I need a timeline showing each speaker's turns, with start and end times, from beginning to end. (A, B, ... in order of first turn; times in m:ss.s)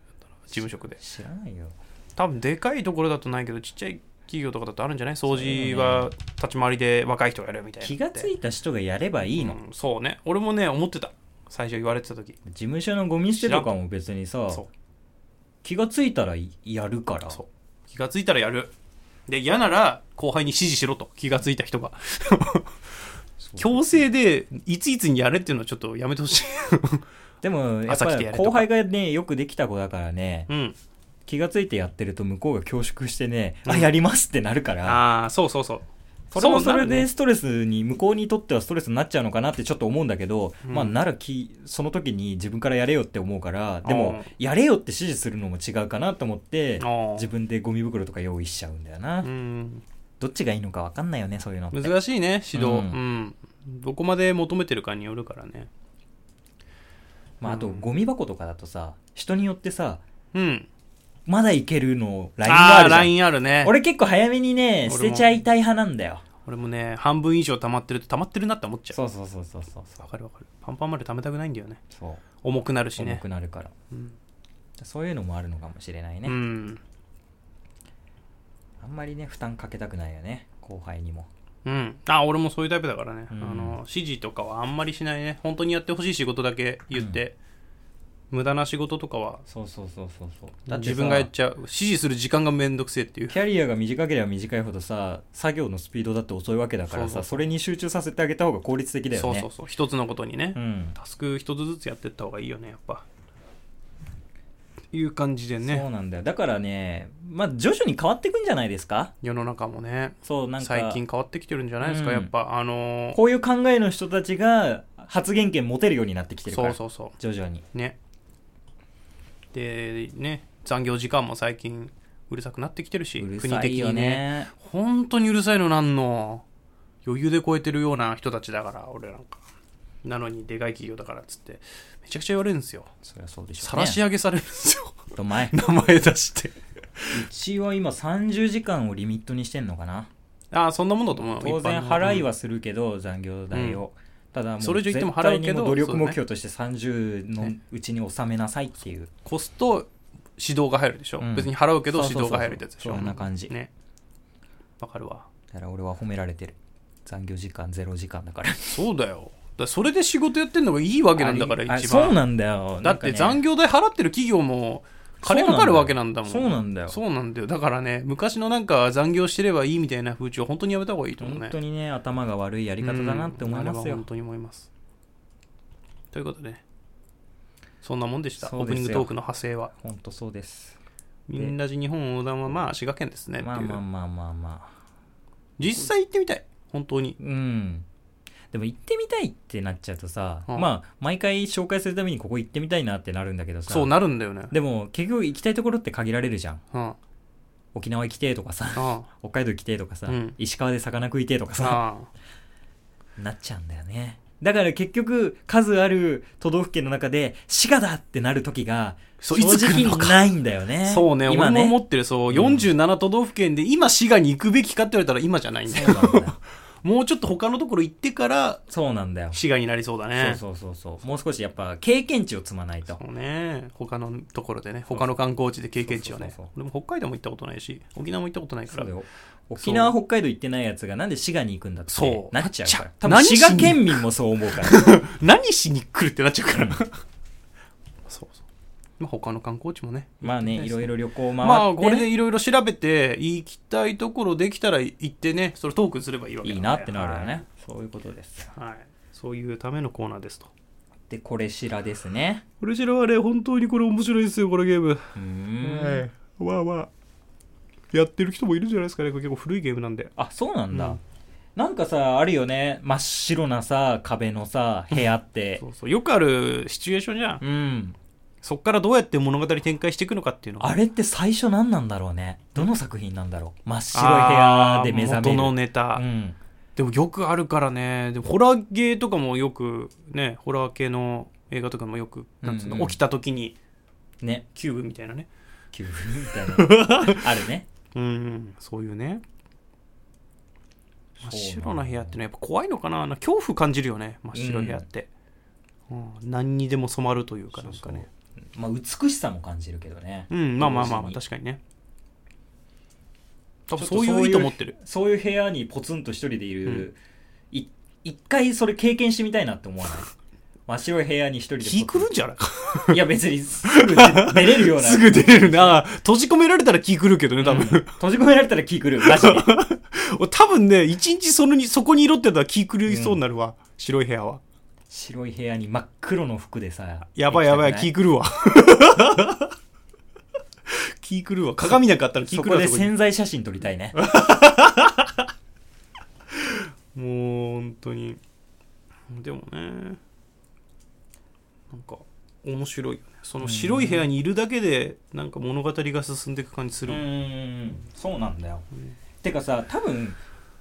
0:00.4-0:01.0 A
0:01.0-0:01.7 B
0:02.2-0:08.3 A
0:05.2-0:06.1 B
0:07.8-0:09.6 B
0:09.3-0:12.4 A
0:12.4-0:14.6 B
0:13.4-0:13.7 A
0:15.6-0:17.4 B
0:17.3-0:18.7 A
0:19.3-0:22.8 A
0:23.4-0:24.0 B
0:23.6-0:27.0 A
0:27.4-0:30.5 B
0:27.9-0:28.7 A
0:30.5-0:30.8 A
0:31.3-0:35.0 B
0:34.8-0:37.1 A
0:36.3-0:49.3 B
0:40.6-0:41.0 A
0:43.8-0:44.3 A
0:46.8-0:47.3 A
0:49.2-0:49.8 A
0:50.2-0:51.9 B
0:51.7-0:55.7 A
0:52.5-0:53.0 B
0:57.4-1:00.0 B
0:57.4-0:57.8 A
1:00.3-1:00.7 A
1:01.2-1:06.2 B
1:02.4-1:03.7 A
1:04.8-1:05.3 A
1:06.4-1:09.0 A
1:08.9-1:10.0 B
1:10.0-1:11.8 A
1:11.9-1:12.2 B
1:12.4-1:13.2 A
1:13.0-1:13.7 B
1:14.8-1:16.4 B
1:16.2-1:16.8 A
1:18.8-1:21.3 B
1:21.6-1:27.4 A
1:23.3-1:23.8 B
1:26.9-1:27.2 B
1:28.3-1:29.4 A
1:29.5-1:31.3 B
1:30.7-1:33.4 A
1:33.3-1:39.5 B
1:36.9-1:37.4 A
1:39.1-1:43.0 A
1:40.5-1:41.0 B
1:44.9-1:45.8 A
1:45.6-1:49.1 B
1:49.2-1:53.2 A
1:50.2-1:51.0 B
1:51.8-1:52.3 B
1:53.1-1:57.6 B
1:56.5-1:57.1 A
1:59.5-2:06.4 A
2:03.2-2:04.5 B
2:07.0-2:09.4 A
2:10.0-2:12.9 A
2:13.0-2:14.0 B
2:13.6-2:17.2 A
2:15.1-2:15.7 B
2:17.1-2:20.1 B
2:20.5-2:22.2 A
2:21.1-2:29.1 B
2:23.5-2:23.8 A
2:24.6-2:26.2 A
2:29.2-2:33.7 A
2:31.2-2:33.5 B
2:34.8-2:35.3 A
2:35.5-2:38.8 B
2:38.7-2:42.2 A
2:41.2-2:43.4 B
2:42.8-2:51.5 A
2:45.2-2:47.0 B
2:51.2-2:54.0 B
2:52.8-2:54.7 A
2:56.1-2:56.6 A
2:57.8-2:59.7 A
2:58.4-2:59.1 B
2:59.7-3:00.8 B
3:01.3-3:03.8 A
3:03.4-3:04.7 B
3:05.6-3:07.2 A
3:05.6-3:05.9 B
3:07.2-3:07.8 B
3:08.5-3:13.9 B
3:13.7-3:14.5 A
3:14.5-3:16.6 B
3:16.7-3:17.0 A
3:17.7-3:21.8 B
3:18.8-3:19.1 A
3:20.1-3:20.4 A
3:21.6-3:22.1 A
3:23.2-3:32.7 B
3:29.2-3:30.2 A
3:30.8-3:38.6 A
3:35.6-3:36.4 B
3:38.7-3:39.4 B
3:39.3-3:40.4 A
3:40.2-3:43.0 B
3:42.9-3:48.9 A
3:45.8-3:46.5 B
3:48.7-3:54.9 B
3:49.6-3:49.9 A
3:51.9-3:54.0 A
3:54.6-3:57.0 A
3:58.1-3:58.4 A
3:59.0-4:07.4 A
4:00.2-4:02.1 B
4:06.4-4:08.5 B
4:08.5-4:10.5 A
4:11.1-4:12.4 B
4:12.6-4:16.9 A
4:15.2-4:16.0 B
4:17.9-4:20.1 A
4:20.2-4:21.0 B
4:20.7-4:21.0 A
4:21.6-4:25.6 B
4:25.6-4:27.4 A
4:27.4-4:28.0 B
4:28.4-4:30.7 A
4:30.6-4:36.4 B
4:33.9-4:36.0 A
4:36.8-4:43.6 A
4:42.4-4:43.0 B
4:44.5-4:45.3 A
4:45.7-4:47.6 B
4:46.5-4:47.2 A
4:47.9-4:49.2 A
4:51.2-4:55.1 A
4:51.2-4:52.2 B
4:54.3-4:54.8 B
4:55.9-4:58.1 A
4:57.5-5:01.2 B
5:00.3-5:01.6 A
5:03.7-5:04.8 A
5:03.8-5:07.0 B
5:07.5-5:10.1 B
5:10.7-5:12.1 B
5:11.6-5:13.0 A
5:12.9-5:15.8 B
5:13.6-5:17.9 A
5:17.4-5:19.5 B
5:19.0-5:24.4 A
5:22.9-5:23.2 B
5:24.9-5:27.9 B
5:27.2-5:29.5 A
5:30.7-5:32.9 A
5:31.7-5:34.0 B
5:33.9-5:35.2 A
5:36.3-5:38.2 A
5:39.1-5:40.0 A
5:41.7-5:47.0 A
5:43.4-5:44.1 B
5:46.8-5:48.6 B
5:49.2-5:50.2 B